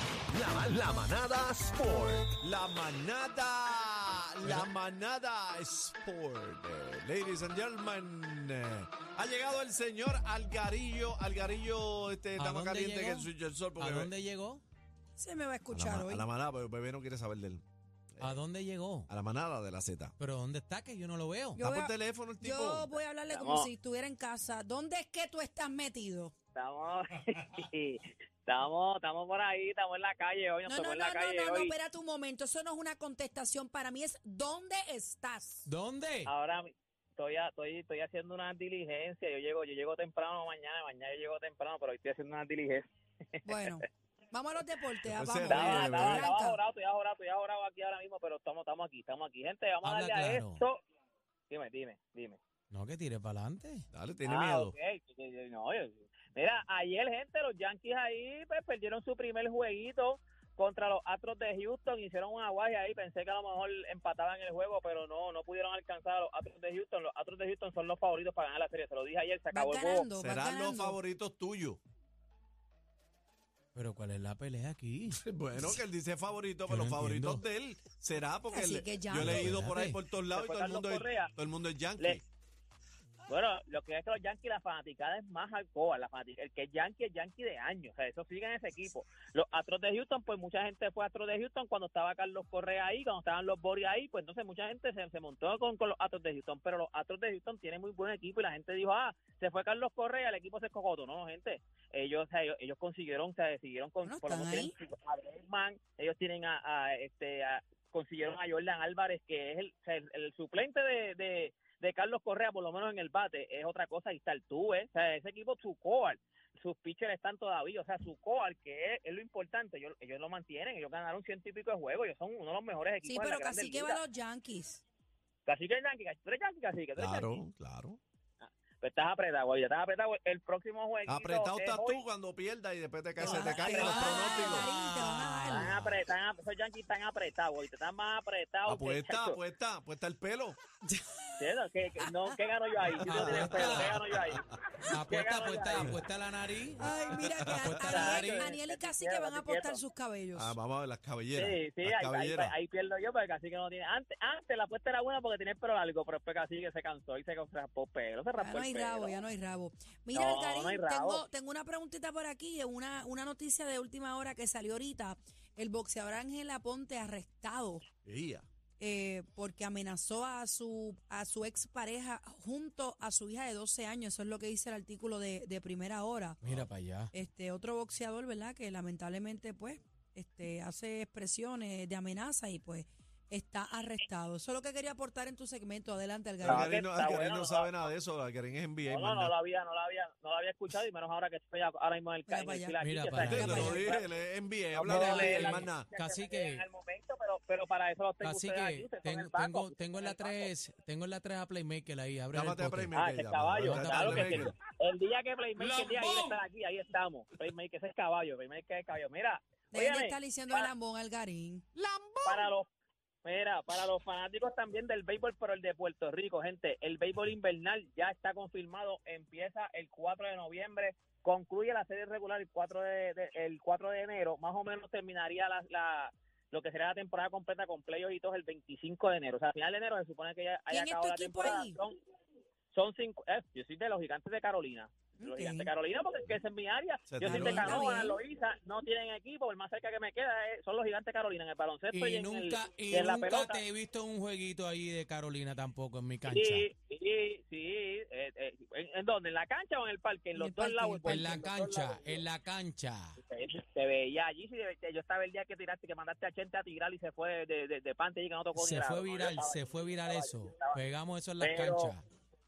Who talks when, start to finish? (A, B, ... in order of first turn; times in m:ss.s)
0:00.3-0:02.4 A
0:02.4-0:14.1 B
0:04.4-0:04.7 C
0:12.4-0:14.6 C
0:15.2-0:16.3 D
0:15.7-0:17.6 B
0:18.2-0:19.1 C
0:19.1-0:20.2 B
0:20.2-0:21.6 C
0:21.6-0:23.0 B
0:21.6-0:26.3 D
0:23.3-0:23.7 E
0:26.6-0:31.7 E
0:30.6-0:35.7 D
0:35.7-0:36.3 C
0:36.2-0:43.7 E
0:43.5-0:46.6 D
0:45.1-0:46.3 B
0:45.5-0:50.8 E
0:49.8-0:50.6 C
0:51.5-0:52.4 E
0:52.7-0:53.9 C
0:53.9-0:54.7 B
0:54.2-1:10.1 E
1:09.5-1:11.0 D
1:10.2-1:11.8 B
1:13.8-1:15.8 C
1:15.1-1:22.2 B
1:16.7-1:17.4 C
1:18.5-1:19.6 D
1:19.1-1:20.0 C
1:20.3-1:21.3 E
1:23.3-2:04.0 E
1:44.0-1:44.7 D
2:03.0-2:04.8 D
2:05.5-2:07.4 E
2:07.0-2:08.0 B
2:08.4-2:12.0 E
2:11.1-2:14.7 B
2:13.2-2:15.7 D
2:13.3-2:14.3 E
2:14.3-2:16.0 C
2:15.5-2:19.4 E
2:18.7-2:20.6 B
2:20.9-2:21.5 D
2:21.4-2:24.5 E
2:22.0-2:22.4 D
2:23.0-2:24.0 C
2:23.1-2:24.4 B
2:24.9-2:26.8 C
2:25.0-2:25.9 E
2:25.7-2:26.0 B
2:26.8-2:30.5 D
2:26.8-2:28.1 B
2:27.5-2:28.5 C
2:27.9-2:29.8 E
2:30.4-2:32.5 B
2:31.4-2:39.2 E
2:38.4-2:47.8 D
2:40.1-2:41.2 E
2:48.0-2:48.5 B
2:48.8-2:56.4 D
2:56.4-2:57.1 C
2:57.1-3:06.7 D
3:06.4-3:09.3 B
3:06.5-3:07.9 E
3:08.9-3:14.1 E
3:12.3-3:12.8 D
3:12.8-3:13.8 C
3:13.2-3:15.9 B
3:13.3-3:14.0 D
3:14.7-3:20.5 E
3:14.8-3:16.6 C
3:15.0-3:15.4 D
3:18.2-3:22.9 C
3:22.3-3:24.5 B
3:22.9-3:30.7 E
3:23.6-3:24.5 C
3:25.6-3:26.4 C
3:29.7-3:31.6 D
3:32.2-3:32.7 E
3:33.2-3:52.0 E
3:50.7-3:51.8 D
3:52.7-4:03.6 E
3:55.2-3:55.7 D
3:57.1-3:57.8 B
3:57.2-3:58.2 D
4:01.9-4:06.7 C
4:06.3-4:12.2 E
4:10.3-4:11.4 D
4:11.0-4:13.2 C
4:13.2-4:20.8 E
4:18.6-4:22.0 C
4:21.4-4:21.9 E